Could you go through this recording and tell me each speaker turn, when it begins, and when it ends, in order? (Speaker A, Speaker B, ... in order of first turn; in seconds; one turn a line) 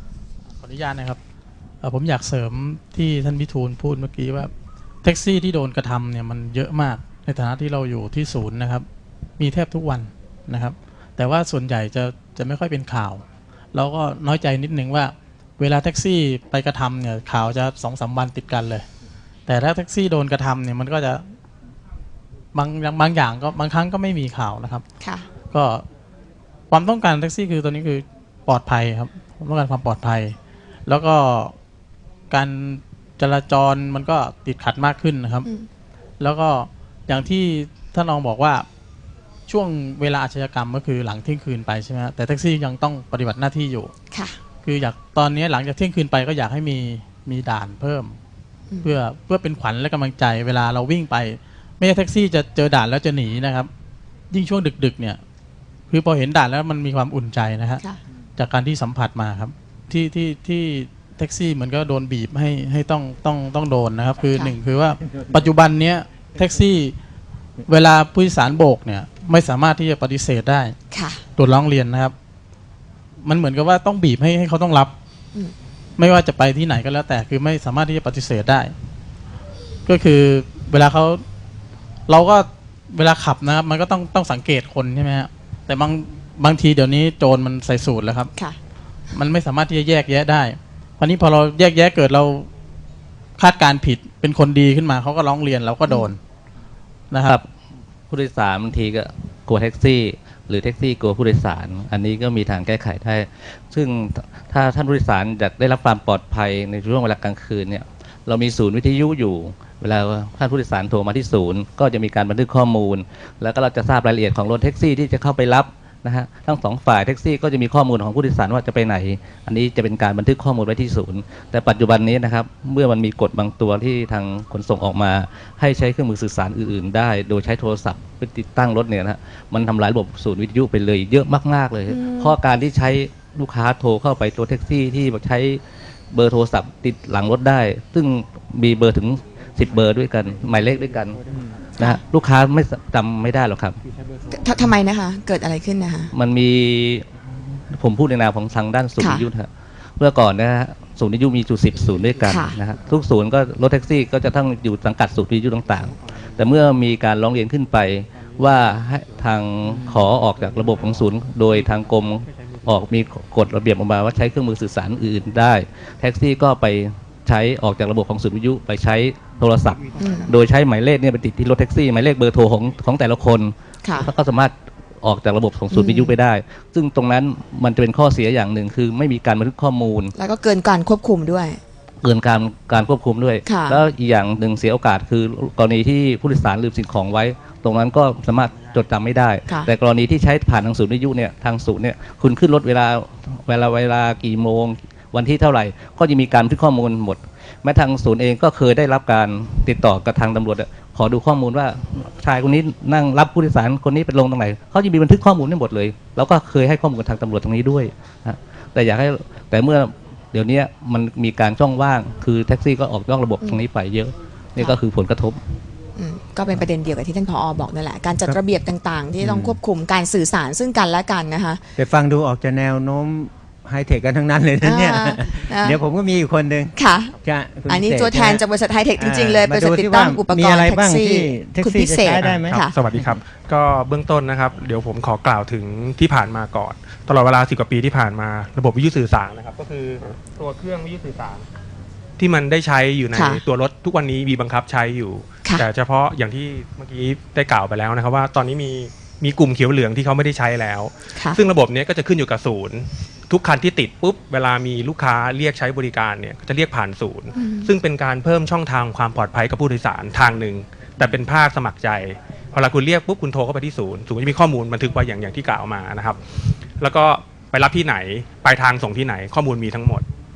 Speaker A: 0.5-1.2
Speaker A: 1.8-4.5
Speaker A: 5.0-8.8
Speaker A: 9.4-18.9
Speaker A: 19.5-21.2
Speaker A: 22.5-24.8
Speaker B: 25.0-25.3
Speaker A: 25.5-25.8
Speaker A: 26.7-30.4
Speaker A: 30.9-31.5
Speaker A: 32.3-35.5
Speaker A: 36.2-38.6
Speaker A: 39.5-43.9
Speaker B: 44.1-44.4
Speaker A: 44.6-48.1
Speaker A: 48.8-53.7
Speaker A: 54.3-55.2
Speaker A: 55.9-57.8
Speaker A: 58.4-67.0
Speaker A: 67.7-70.7
Speaker B: 70.9-71.2
Speaker A: 71.3-72.1
Speaker A: 73.2-74.9
Speaker A: 76.0-78.7
Speaker A: 79.8-81.2
Speaker A: 82.1-88.3
Speaker A: 89.1-92.5
Speaker A: 93.4-96.2
Speaker C: 98.1-141.2
Speaker B: 131.9-132.3
Speaker C: 141.8-143.8
Speaker B: 144.3-146.1
Speaker C: 146.1-147.1
Speaker C: 147.7-180.1
Speaker B: 149.0-149.3
Speaker B: 152.2-152.6
Speaker B: 170.0-170.3
Speaker B: 173.8-174.1
Speaker B: 175.7-176.1
Speaker B: 180.2-181.6
Speaker C: 182.0-215.4
Speaker B: 183.4-183.8
Speaker B: 215.9-221.6
Speaker D: 219.2-219.6
Speaker D: 221.8-233.2
Speaker B: 224.6-225.8
Speaker B: 226.7-227.2
Speaker B: 227.7-232.8
Speaker E: 232.1-241.4
Speaker E: 242.2-266.2
Speaker B: 243.1-243.4
Speaker B: 257.4-257.7
Speaker E: 266.8-270.0